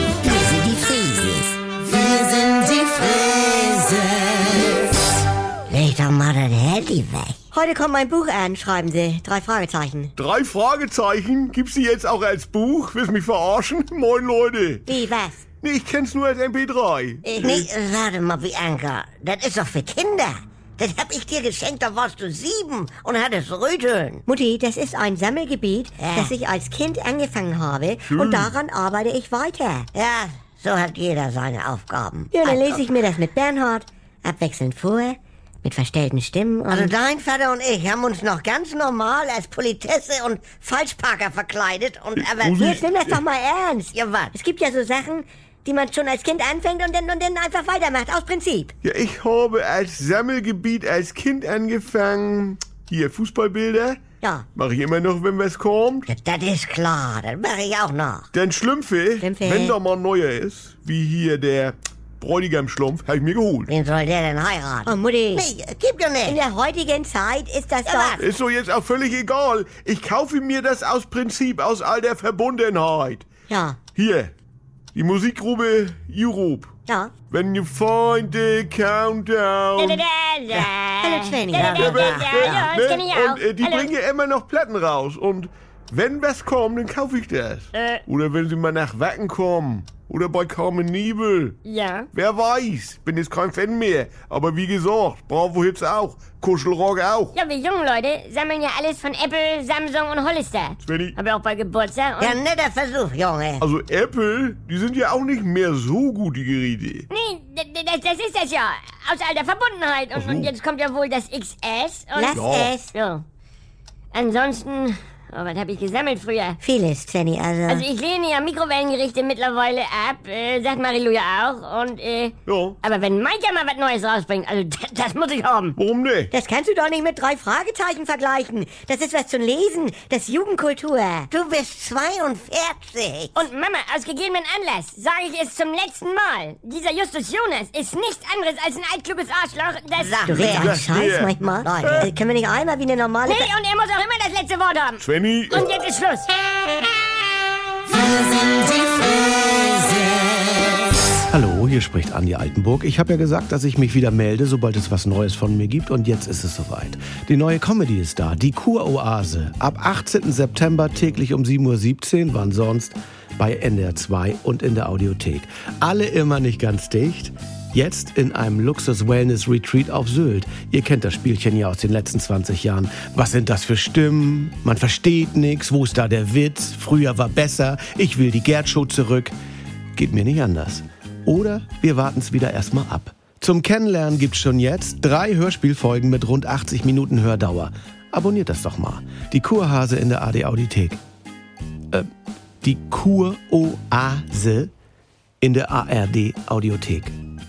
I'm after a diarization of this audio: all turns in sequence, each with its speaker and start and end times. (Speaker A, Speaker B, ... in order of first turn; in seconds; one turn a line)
Speaker A: 0.2-4.3
Speaker A: 5.7-7.4
Speaker B: 7.5-10.1
Speaker C: 10.2-14.9
Speaker B: 14.9-15.4
Speaker C: 15.6-17.7
Speaker B: 17.2-17.6
Speaker A: 17.4-24.2
Speaker B: 24.3-29.9
Speaker A: 26.0-26.3
Speaker C: 28.0-28.5
Speaker A: 29.9-32.8
Speaker B: 32.3-36.9
Speaker A: 36.7-42.8
Speaker C: 42.2-43.2
Speaker B: 42.5-48.7
Speaker A: 43.9-44.3
Speaker C: 48.8-54.0
Speaker C: 54.5-56.1
Speaker A: 56.1-58.3
Speaker C: 58.3-63.7
Speaker B: 59.2-59.8
Speaker A: 63.7-66.4
Speaker B: 64.8-65.5
Speaker B: 66.2-68.2
Speaker A: 67.8-68.2
Speaker C: 68.2-73.2
Speaker B: 73.5-73.8
Speaker C: 73.9-74.3
Speaker C: 74.9-76.7
Speaker B: 76.9-77.1
Speaker C: 77.3-80.0
Speaker D: 79.8-83.9
Speaker B: 81.0-81.9
Speaker A: 81.5-82.3
Speaker C: 81.7-91.5
Speaker D: 87.7-88.0
Speaker D: 91.6-92.1
Speaker C: 92.1-97.3
Speaker D: 97.3-102.4
Speaker C: 100.8-101.1
Speaker A: 102.2-103.6
Speaker C: 103.6-107.0
Speaker D: 107.1-113.2
Speaker C: 110.1-110.5
Speaker B: 112.1-112.9
Speaker C: 112.3-112.8
Speaker D: 114.1-116.6
Speaker B: 116.6-117.8
Speaker D: 117.7-125.8
Speaker C: 122.5-122.8
Speaker C: 125.8-126.3
Speaker B: 126.3-131.3
Speaker A: 131.3-133.4
Speaker D: 133.3-140.5
Speaker A: 140.0-140.9
Speaker C: 140.2-142.1
Speaker B: 140.4-143.5
Speaker A: 141.6-142.1
Speaker D: 143.2-146.3
Speaker C: 145.0-145.6
Speaker E: 151.3-179.3
Speaker E: 179.9-191.0
Speaker E: 192.6-194.7
Speaker E: 195.4-197.1